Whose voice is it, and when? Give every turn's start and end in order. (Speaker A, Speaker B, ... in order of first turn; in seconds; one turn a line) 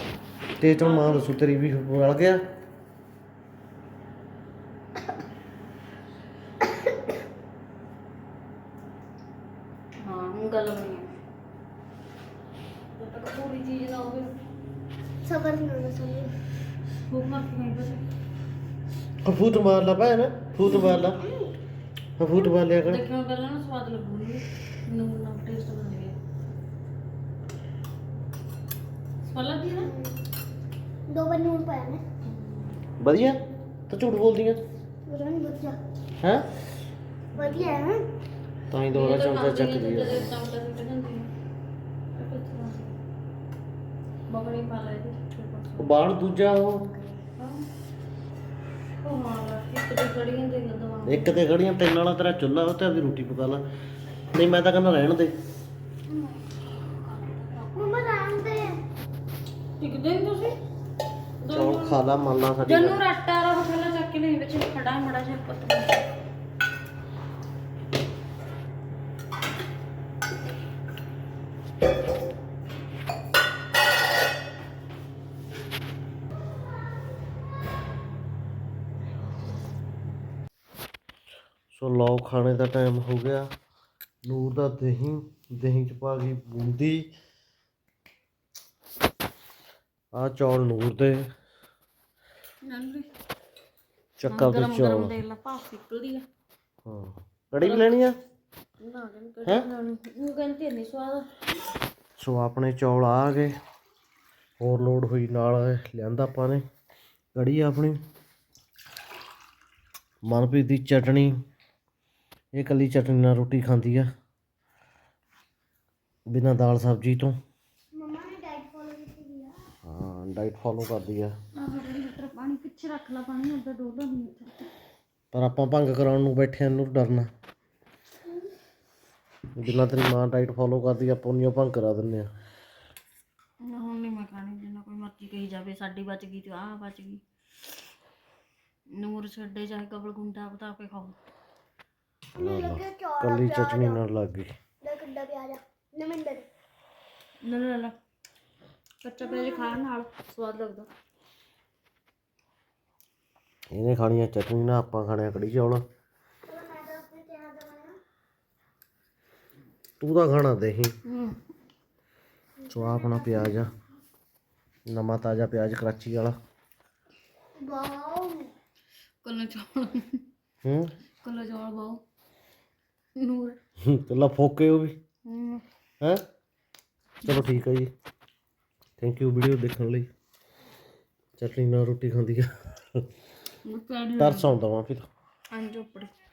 Speaker A: 0.6-2.4
Speaker B: 0.6-1.3
Speaker B: 10.0-11.1
Speaker B: 12.9-14.3
Speaker C: 15.2-16.3
Speaker B: 17.1-18.0
Speaker A: 19.2-21.2
Speaker B: 20.7-20.9
Speaker C: 20.9-21.6
Speaker A: 22.2-23.0
Speaker B: 22.8-26.2
Speaker B: 29.2-29.9
Speaker C: 29.7-30.2
Speaker C: 31.1-32.0
Speaker B: 32.2-32.8
Speaker A: 33.0-34.6
Speaker C: 35.1-35.8
Speaker C: 37.4-38.0
Speaker B: 37.4-37.8
Speaker A: 38.7-40.3
Speaker B: 38.9-41.3
Speaker B: 42.1-43.0
Speaker B: 44.3-46.0
Speaker A: 45.8-46.9
Speaker B: 47.2-47.6
Speaker B: 49.0-51.4
Speaker A: 51.1-53.6
Speaker A: 54.3-55.3
Speaker B: 56.1-57.9
Speaker C: 57.8-58.8
Speaker B: 59.8-60.6
Speaker B: 61.4-62.0
Speaker A: 61.5-63.0
Speaker B: 62.6-66.0
Speaker A: 81.7-83.5
Speaker A: 84.2-87.1
Speaker A: 90.1-91.3
Speaker B: 92.6-93.1
Speaker A: 94.2-95.2
Speaker B: 94.3-96.3
Speaker A: 96.8-98.2
Speaker B: 97.6-97.9
Speaker B: 98.8-101.3
Speaker A: 102.2-103.6
Speaker A: 104.6-106.6
Speaker A: 107.3-108.0
Speaker A: 110.2-111.4
Speaker A: 112.5-114.1
Speaker A: 116.3-117.4
Speaker C: 117.9-119.7
Speaker A: 119.9-121.3
Speaker B: 121.5-124.7
Speaker A: 125.3-127.3
Speaker A: 129.6-132.3
Speaker B: 133.6-137.2
Speaker B: 138.9-141.2
Speaker C: 142.3-144.0
Speaker A: 142.4-144.5
Speaker C: 144.8-146.5
Speaker B: 147.4-147.9
Speaker B: 149.0-150.9
Speaker C: 149.2-149.8
Speaker A: 153.7-155.8
Speaker C: 156.5-158.0
Speaker A: 160.0-161.0
Speaker B: 161.1-161.4
Speaker C: 162.6-163.6
Speaker A: 162.7-163.7
Speaker A: 164.9-166.4
Speaker C: 167.6-168.5
Speaker B: 169.2-170.2
Speaker A: 170.7-170.9
Speaker B: 171.2-172.0
Speaker B: 173.2-173.6
Speaker A: 173.8-175.0
Speaker B: 175.2-175.6
Speaker A: 177.2-177.9
Speaker A: 179.0-180.1
Speaker A: 181.4-183.1
Speaker B: 183.6-184.5
Speaker A: 184.2-185.1
Speaker B: 185.5-186.1